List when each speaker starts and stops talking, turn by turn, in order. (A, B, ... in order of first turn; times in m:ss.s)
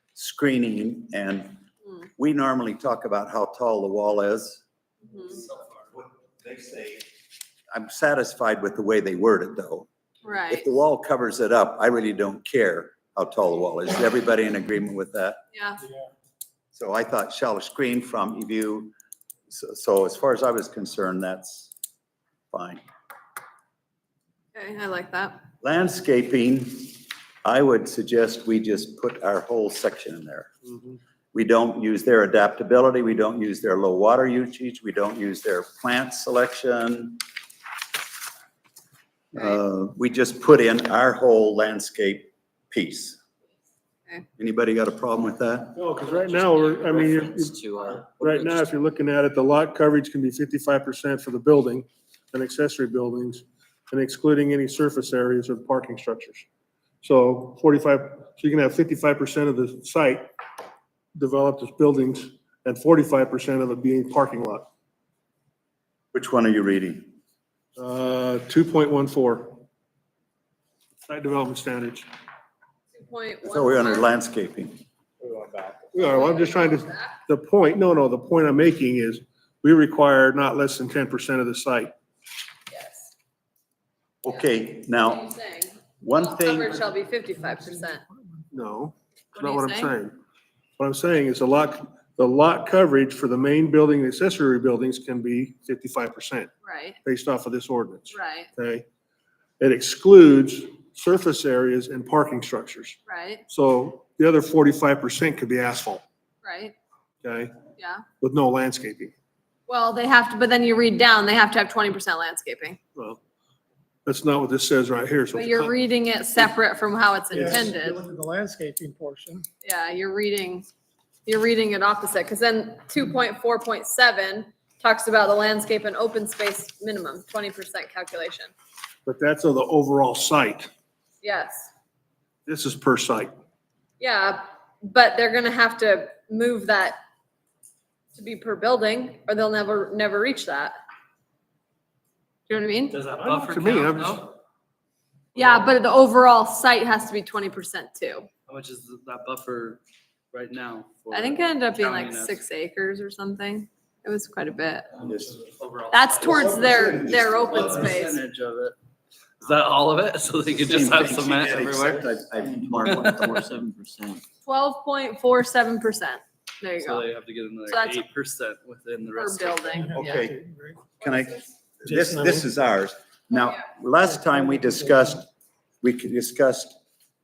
0:00.2-0:01.6 A
0:02.2-0:04.6 A
0:06.0-0:07.0 A
0:07.7-0:09.9 A
0:10.2-0:10.6 B
0:10.5-0:15.4 A
0:15.5-0:15.8 B
0:16.7-0:18.9 A
0:19.5-0:21.7 A
0:22.5-0:22.8 A
0:24.6-0:25.4 B
0:25.6-0:30.5 A
0:31.3-0:37.2 A
0:39.3-0:43.2 A
0:44.4-0:45.8 A
0:45.8-0:56.5 C
0:46.3-0:48.6 D
0:57.0-1:00.3 C
1:01.2-1:04.7 C
1:06.1-1:07.1 A
1:07.8-1:09.6 C
1:11.1-1:12.1 C
1:12.9-1:14.1 B
1:13.4-1:14.8 A
1:15.8-1:21.9 C
1:16.0-1:17.2 B
1:22.7-1:23.1 B
1:24.2-1:25.2 A
1:25.0-1:28.0 B
1:26.0-1:26.8 A
1:28.5-1:30.2 C
1:29.4-1:29.9 B
1:30.8-1:36.5 C
1:36.6-1:37.0 B
1:37.0-1:38.8 C
1:38.1-1:38.5 B
1:39.6-1:43.0 C
1:43.1-1:43.4 B
1:43.5-1:46.0 C
1:46.4-1:46.8 B
1:47.2-1:47.5 C
1:47.8-1:48.0 B
1:48.2-1:49.1 C
1:49.7-1:52.8 B
1:54.0-1:55.7 C
1:55.3-1:58.0 B
1:57.3-1:59.5 E
1:59.6-2:00.7 B
2:01.3-2:08.5 B
2:09.0-2:10.7 C
2:11.2-2:11.7 B
2:12.5-2:13.4 C
2:14.0-2:17.0 B
2:18.1-2:20.7 B
2:22.5-2:23.0 B
2:22.9-2:24.2 F
2:23.2-2:24.3 C
2:25.4-2:25.7 F
2:25.4-2:28.3 B
2:28.5-2:29.8 F
2:30.3-2:32.4 F
2:31.1-2:34.9 B
2:35.0-2:38.8 F
2:35.0-2:35.4 A
2:35.9-2:38.2 B
2:37.2-2:37.8 A
2:39.4-2:42.1 F
2:40.6-2:43.8 A
2:42.6-2:44.0 D
2:44.5-2:47.1 B
2:46.8-2:49.8 F
2:47.7-2:48.0 B
2:49.2-2:50.3 B
2:49.8-2:50.8 E
2:49.9-2:50.4 A
2:51.0-2:55.3 A
2:51.0-2:51.5 B
2:55.8-2:56.8 A